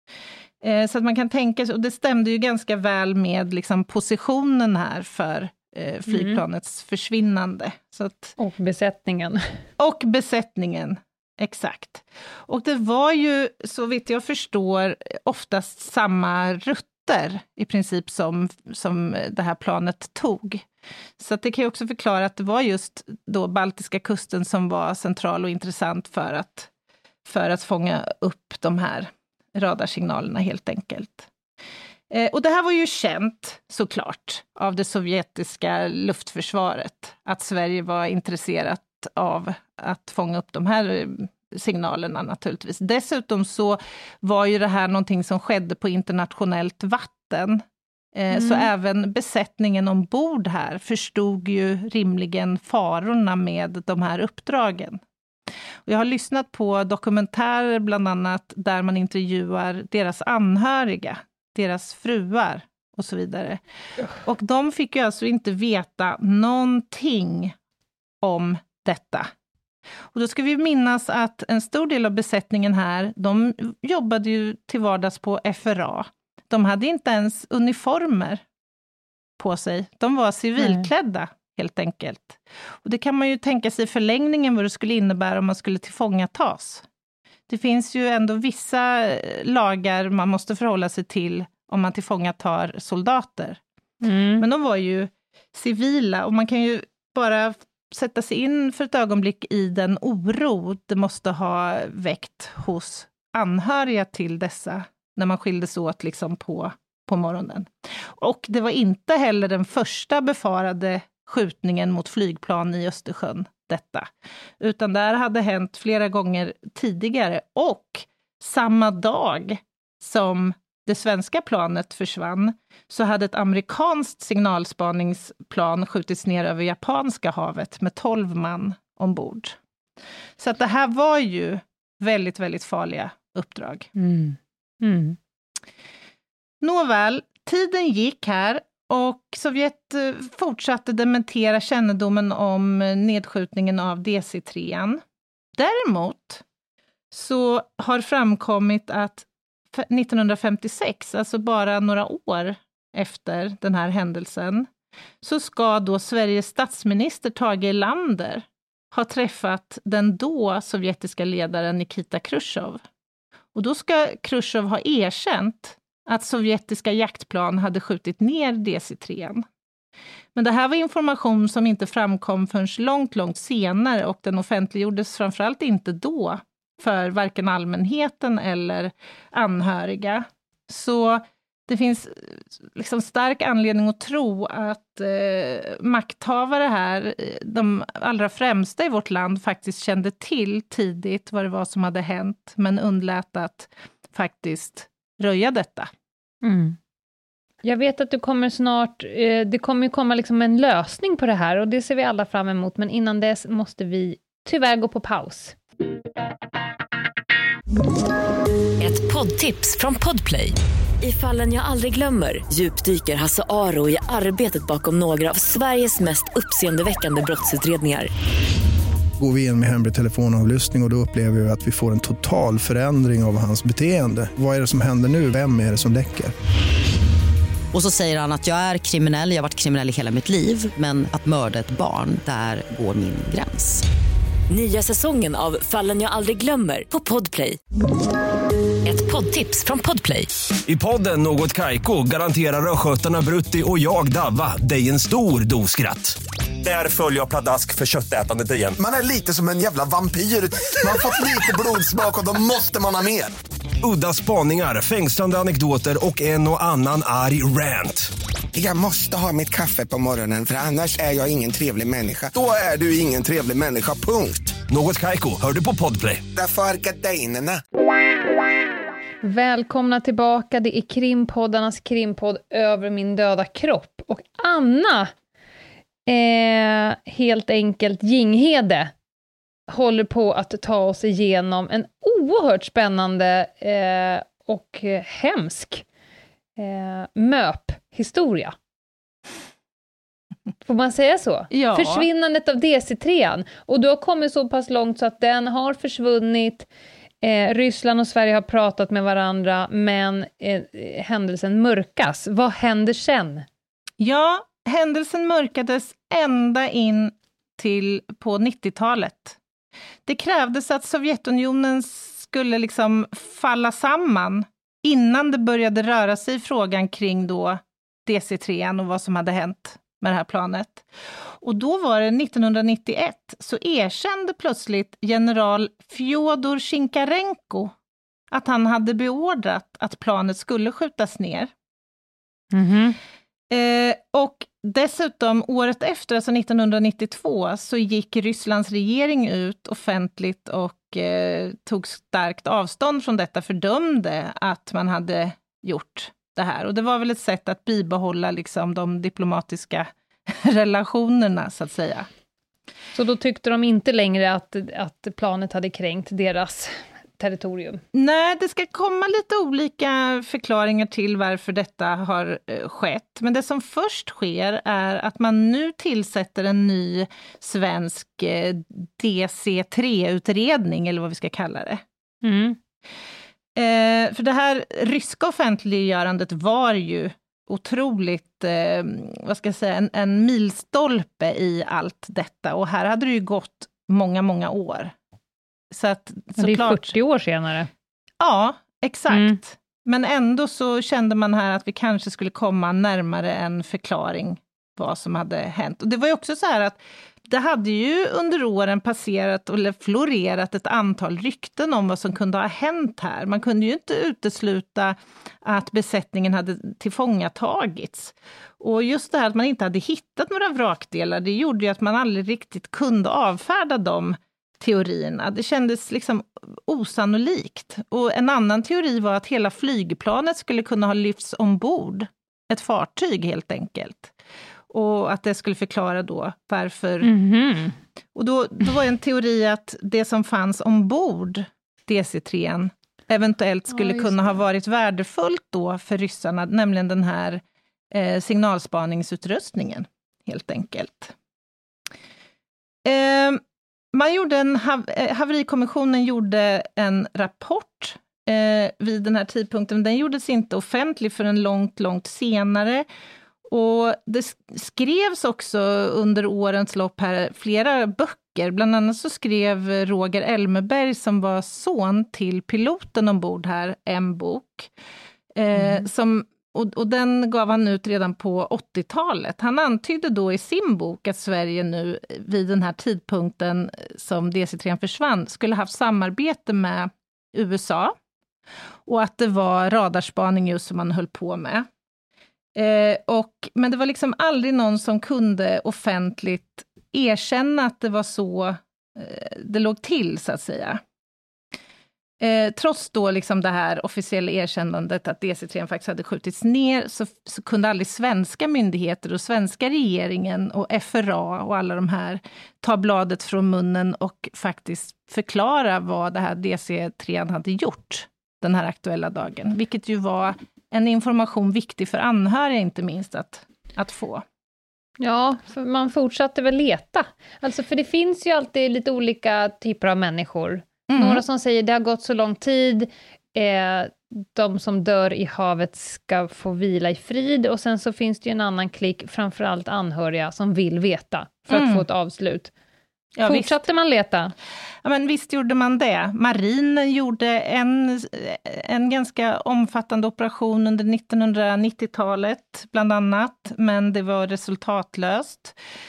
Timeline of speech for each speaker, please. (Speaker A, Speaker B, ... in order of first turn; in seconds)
Speaker A: 0.6-8.3, 9.8-20.7, 21.2-26.7, 27.2-31.3, 32.1-47.6, 48.1-55.0, 55.8-63.6, 64.2-67.5, 68.2-69.3, 70.1-78.4, 79.4-86.8, 87.5-93.6, 94.4-129.6, 130.4-133.9, 136.6-145.0, 145.5-146.4, 147.1-154.7, 155.2-162.8, 163.5-169.4, 170.3-195.9, 291.5-292.1, 304.0-309.4, 310.1-320.8, 321.4-327.7, 328.3-331.5, 333.5-352.1, 357.9-371.8, 373.6-384.9, 385.7-386.9, 388.2-424.1, 424.7-427.1, 428.1-441.1, 442.8-443.4, 443.9-452.9, 453.5-464.7, 465.3-477.9, 478.9-481.7, 482.5-490.8, 492.2-514.2, 520.9-521.2, 531.5-531.8, 533.1-533.6, 534.8-545.5
Speaker B: 6.1-6.4, 8.4-9.6, 48.3-48.7, 80.6-80.9, 94.0-94.5, 133.9-135.2, 196.4-196.8, 197.6-205.6, 269.2-275.1, 276.1-278.9, 279.7-285.8, 286.6-288.6, 290.6-296.7, 297.2-303.4, 332.5-333.0, 352.9-357.8, 372.2-372.6, 386.3-387.7, 389.1-389.4, 427.0-427.8, 433.7-434.4, 465.6-465.8, 515.0-532.5, 533.2-534.3
Speaker C: 208.8-218.1, 234.5-237.6, 238.8-240.3
Speaker D: 219.2-226.3
Speaker E: 227.7-233.8
Speaker F: 240.7-248.8, 253.8-258.1, 264.7-266.2
Speaker G: 248.8-253.3, 258.5-264.6, 266.3-267.6